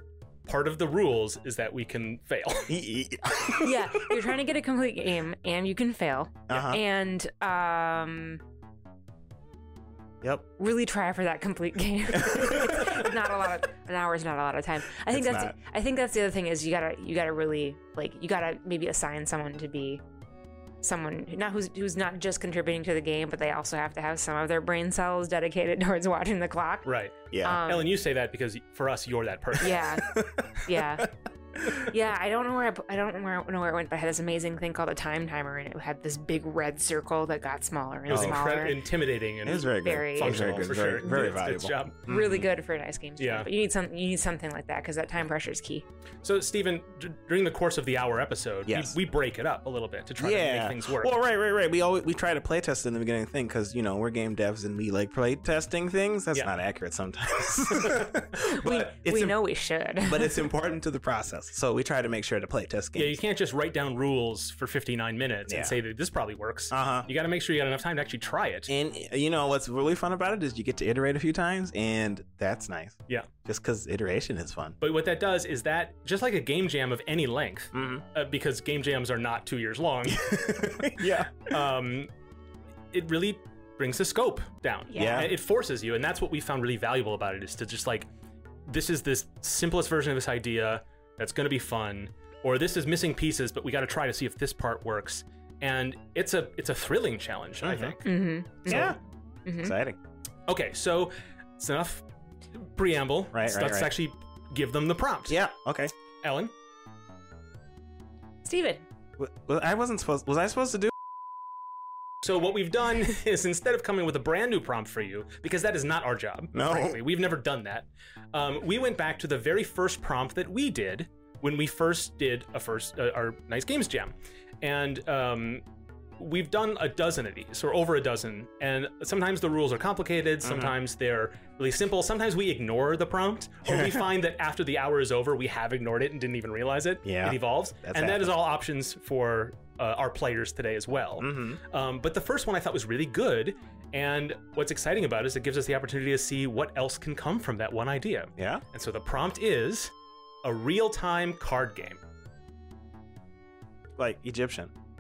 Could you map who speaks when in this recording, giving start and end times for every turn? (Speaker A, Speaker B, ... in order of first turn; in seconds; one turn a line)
Speaker A: 0.5-2.8
Speaker B: 2.7-4.1
Speaker C: 3.6-8.4
Speaker B: 6.5-6.8
Speaker C: 10.6-20.0
Speaker B: 12.2-13.0
Speaker B: 15.1-15.6
Speaker C: 20.8-27.9
Speaker A: 26.9-29.9
Speaker B: 27.3-27.6
Speaker C: 29.6-30.1
Speaker B: 30.1-30.5
Speaker C: 30.6-31.0
Speaker B: 31.0-31.9
Speaker C: 31.9-38.8
Speaker A: 38.1-42.1
Speaker B: 38.1-38.4
Speaker B: 39.5-42.5
Speaker C: 39.8-40.5
Speaker C: 42.1-45.9
Speaker A: 43.2-43.5
Speaker A: 46.2-51.2
Speaker B: 48.7-49.0
Speaker B: 50.2-59.4
Speaker A: 56.3-56.6
Speaker A: 57.8-58.1
Speaker C: 58.6-60.5
Speaker B: 60.0-63.2
Speaker A: 63.0-68.7
Speaker B: 65.5-65.8
Speaker B: 66.7-67.1
Speaker B: 68.7-74.8
Speaker A: 74.8-82.1
Speaker B: 77.7-78.0
Speaker B: 80.2-81.5
Speaker A: 82.9-88.1
Speaker C: 84.9-85.3
Speaker B: 85.0-85.3
Speaker A: 88.7-98.0
Speaker B: 97.6-98.0
Speaker C: 98.0-99.8
Speaker B: 98.7-99.0
Speaker B: 99.6-100.0
Speaker A: 100.5-102.0
Speaker A: 102.6-105.5
Speaker B: 103.3-103.9
Speaker B: 105.3-105.9
Speaker A: 106.2-106.5
Speaker C: 108.5-108.8
Speaker B: 109.2-110.9
Speaker A: 112.2-125.7
Speaker B: 116.5-117.0
Speaker A: 126.2-152.0
Speaker B: 130.4-130.7
Speaker B: 137.0-138.3
Speaker B: 141.2-141.6
Speaker B: 148.4-148.6
Speaker B: 154.0-154.7